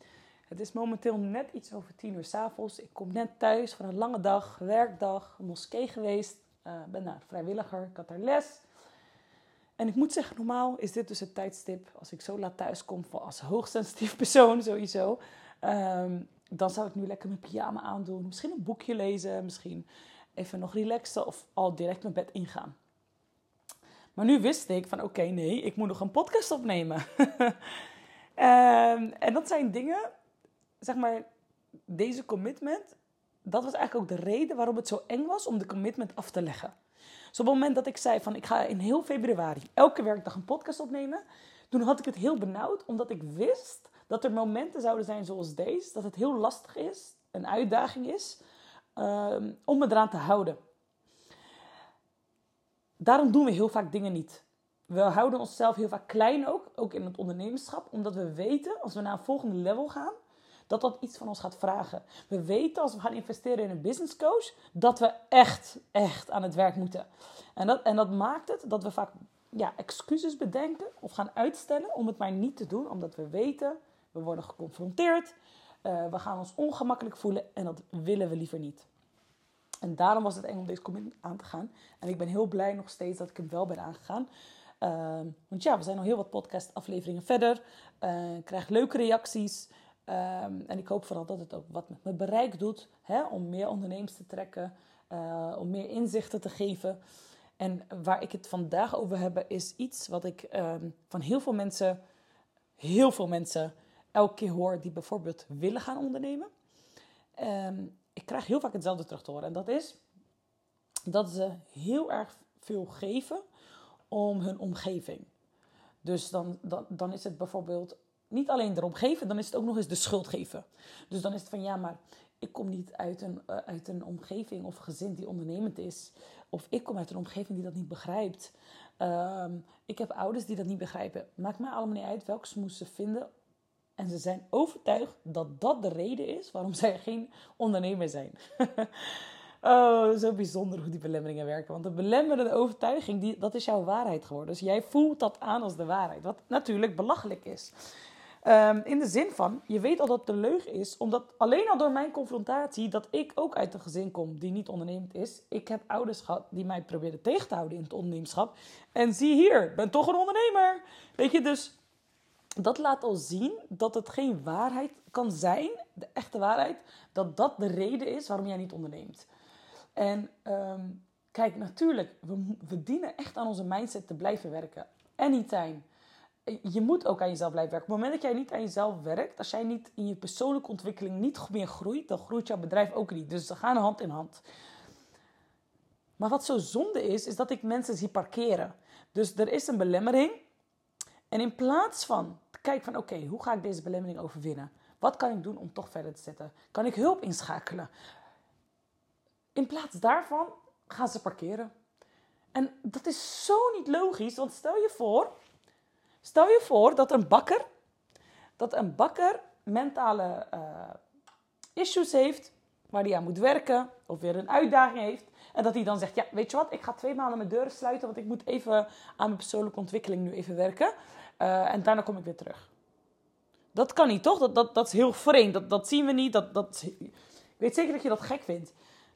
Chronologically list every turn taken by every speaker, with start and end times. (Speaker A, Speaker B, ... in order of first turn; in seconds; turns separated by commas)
Speaker A: 0.5-8.6, Speaker A: 9.8-22.8, Speaker A: 24.1-27.7, Speaker A: 28.4-30.1, Speaker A: 30.8-31.2, Speaker A: 31.9-33.0, Speaker A: 33.5-36.7, Speaker A: 37.3-48.4, Speaker A: 49.0-50.6, Speaker A: 53.0-60.1, Speaker A: 60.7-75.3, Speaker A: 75.8-78.9, Speaker A: 79.8-84.3, Speaker A: 84.8-97.0, Speaker A: 97.6-102.0, Speaker A: 102.8-106.5, Speaker A: 107.4-110.0, Speaker A: 111.1-113.4, Speaker A: 114.1-115.3, Speaker A: 116.0-133.3, Speaker A: 134.0-147.7, Speaker A: 148.4-161.8, Speaker A: 162.6-169.3, Speaker A: 169.9-175.8, Speaker A: 176.5-184.4, Speaker A: 186.2-190.4, Speaker A: 191.3-197.9, Speaker A: 199.5-201.7, Speaker A: 202.5-205.3, Speaker A: 206.2-207.7, Speaker A: 208.6-211.0, Speaker A: 211.8-222.7, Speaker A: 223.7-228.8